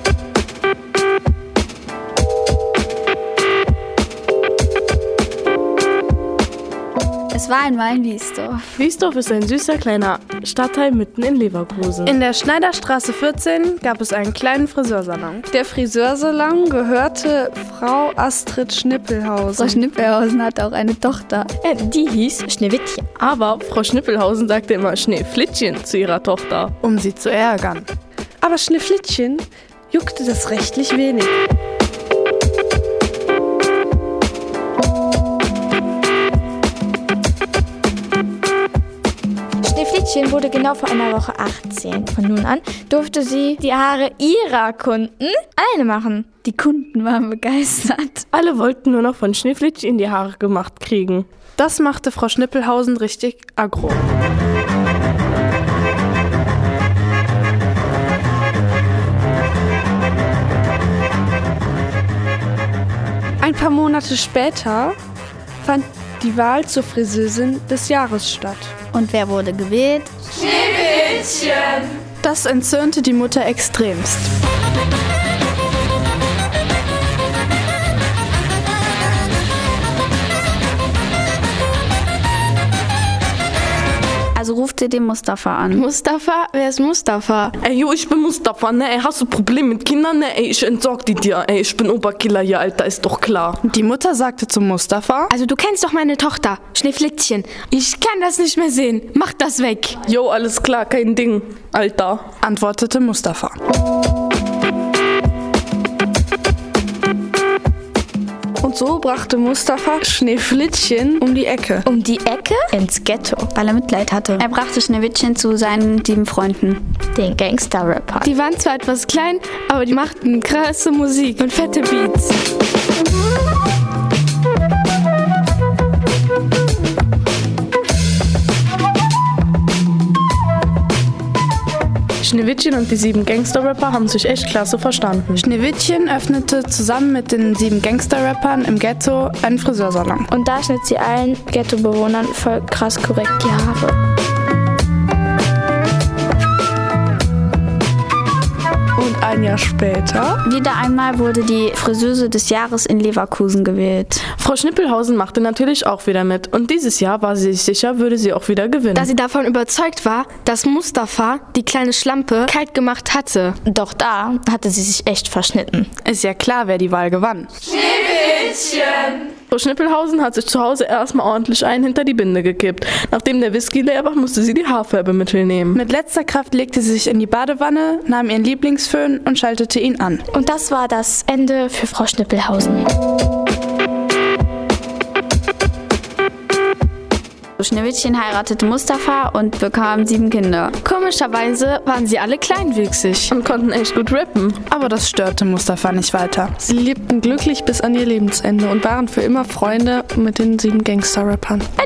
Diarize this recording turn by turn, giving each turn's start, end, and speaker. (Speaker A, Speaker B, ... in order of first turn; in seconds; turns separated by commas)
Speaker A: 7.3-8.8, Speaker B: 8.8-12.2, Speaker C: 12.1-15.6, Speaker D: 15.6-16.7, Speaker C: 16.7-17.3, Speaker D: 17.5-19.8, Speaker A: 19.6-21.5, Speaker E: 21.6-23.1, Speaker B: 23.2-26.7, Speaker C: 26.8-27.9, Speaker D: 28.4-29.4, Speaker D: 29.9-30.8, Speaker C: 30.0-31.3, Speaker E: 39.6-46.4, Speaker A: 46.4-48.3, Speaker B: 48.3-51.3, Speaker C: 51.6-54.0, Speaker C: 63.5-64.9, Speaker C: 65.7-68.5, Speaker D: 68.4-68.7, Speaker A: 68.9-71.6, Speaker C: 72.2-74.3, Speaker A: 84.3-85.9, Speaker F: 85.7-87.5, Speaker B: 87.6-93.6, Speaker C: 93.6-95.3, Speaker F: 95.3-100.0, Speaker B: 100.0-102.2, Speaker C: 102.4-103.6, Speaker D: 108.6-111.8, Speaker E: 111.9-113.5, Speaker A: 113.5-116.8, Speaker E: 117.2-118.3, Speaker F: 118.2-122.2, Speaker B: 132.2-135.4, Speaker C: 135.4-140.3, Speaker E: 140.3-144.0, Speaker D: 149.0-150.4, Speaker A: 150.4-154.3, Speaker B: 154.4-159.1, Speaker F: 158.9-163.6, Speaker E: 163.7-165.9, Speaker C: 166.0-167.5, Speaker B: 168.5-175.8, Speaker C: 175.7-180.2, Speaker E: 180.3-182.8, Speaker A: 187.6-190.8, Speaker F: 190.8-193.3, Speaker B: 193.3-194.6, Speaker C: 194.7-196.6, Speaker B: 196.8-197.6, Speaker D: 198.8-201.7